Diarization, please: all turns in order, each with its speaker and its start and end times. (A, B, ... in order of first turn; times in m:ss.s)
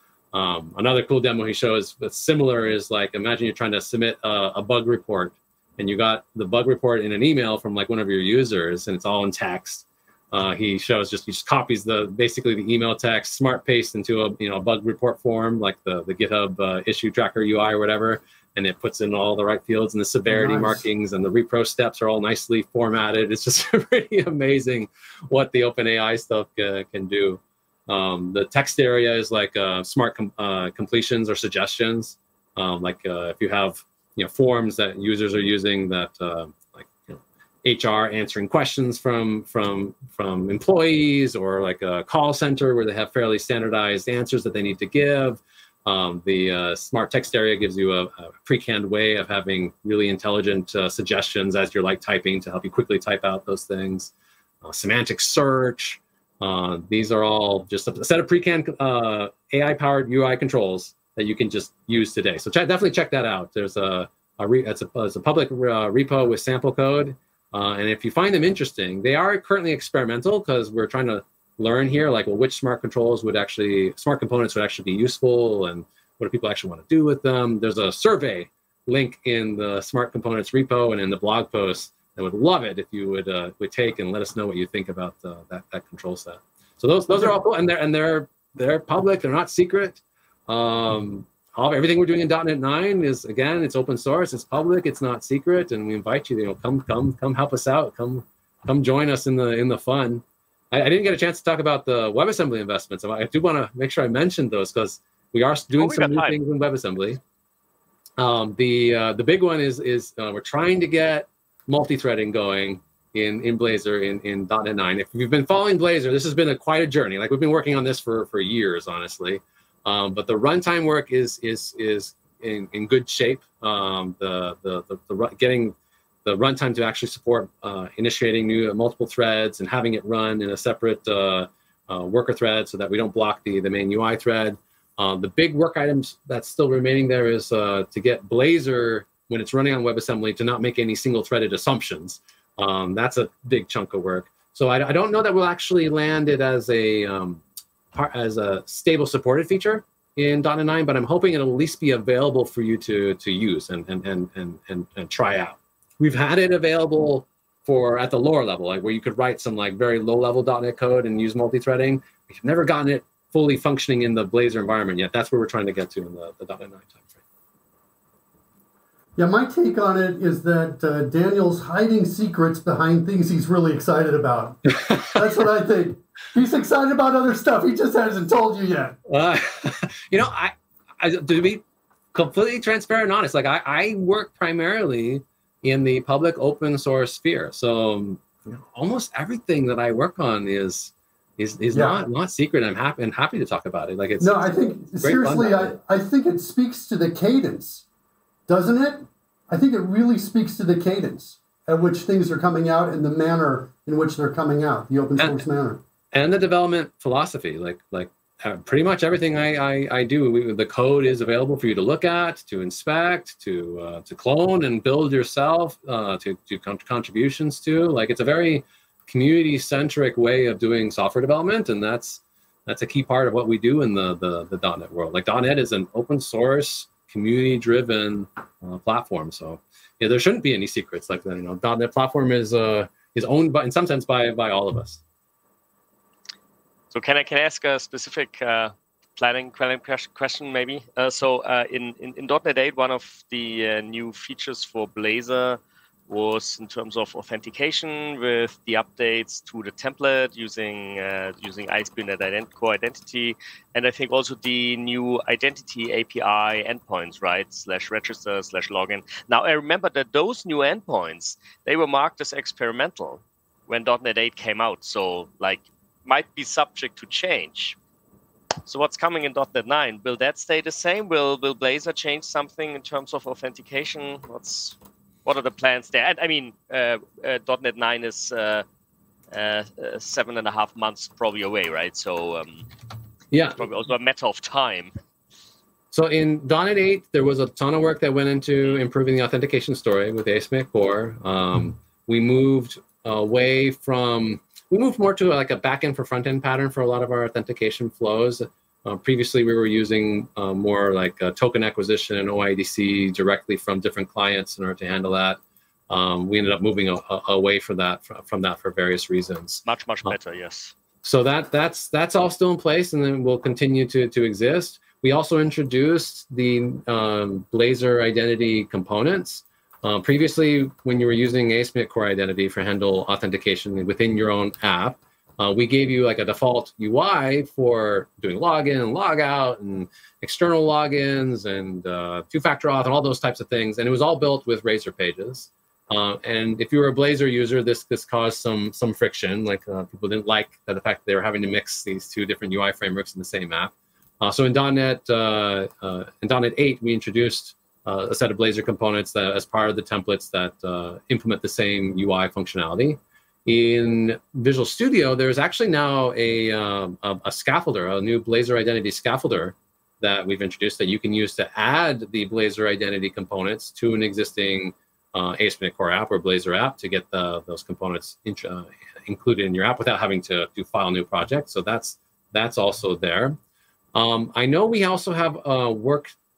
0:00.3-1:47.2 A
0:20.3-0:20.8 B
1:45.8-1:46.4 C
1:48.2-2:27.4 A
2:27.9-2:47.2 A
2:49.2-2:59.0 B
2:54.8-2:55.2 A
2:59.1-3:01.6 A
3:02.1-3:15.8 A
3:11.7-3:12.0 B
3:14.2-3:17.8 B
3:18.5-3:25.8 B
3:25.2-3:25.4 A
3:26.1-3:55.0 A
3:56.9-4:27.8 C
4:28.6-4:38.6 C
4:39.3-4:42.7 C
4:43.3-4:43.6 A
4:43.6-4:44.9 C
4:45.9-5:05.4 A
5:05.9-5:10.1 A
5:09.6-5:10.7 C
5:11.0-6:13.4 A
6:13.9-6:16.1 A